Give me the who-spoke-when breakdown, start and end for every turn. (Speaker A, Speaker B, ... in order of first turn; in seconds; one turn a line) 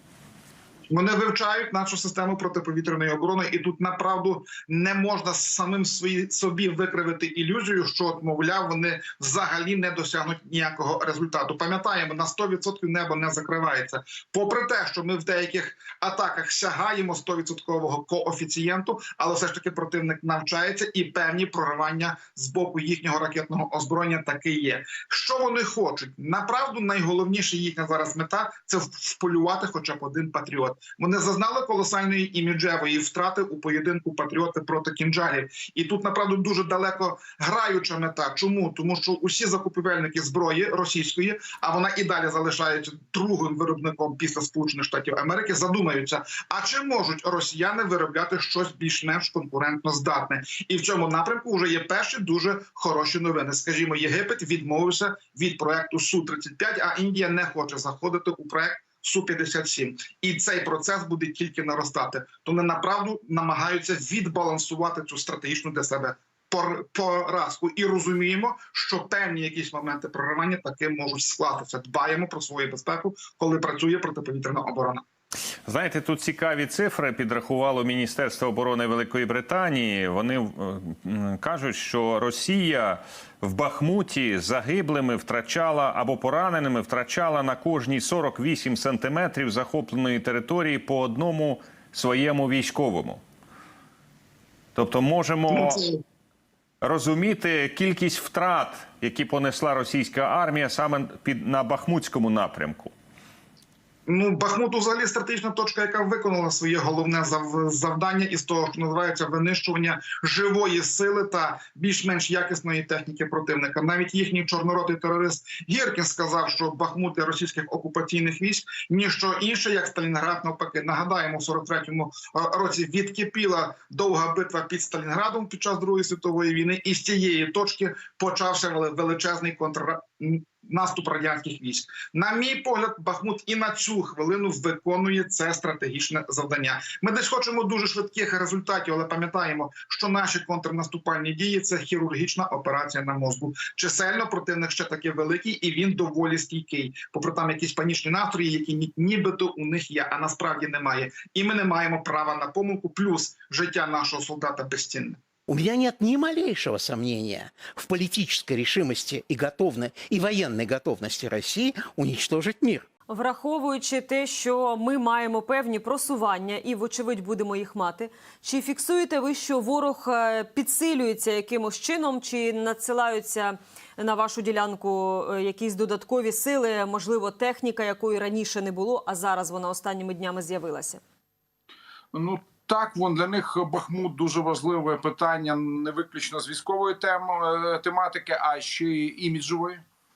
Speaker A: 0.9-75.0
Speaker B: 75.7-93.2
Speaker B: 94.8-95.8
Speaker A: 95.5-96.0
Speaker B: 96.8-102.9
Speaker A: 104.1-155.2
Speaker C: 155.5-162.9
Speaker D: 163.1-181.0
Speaker E: 182.1-189.8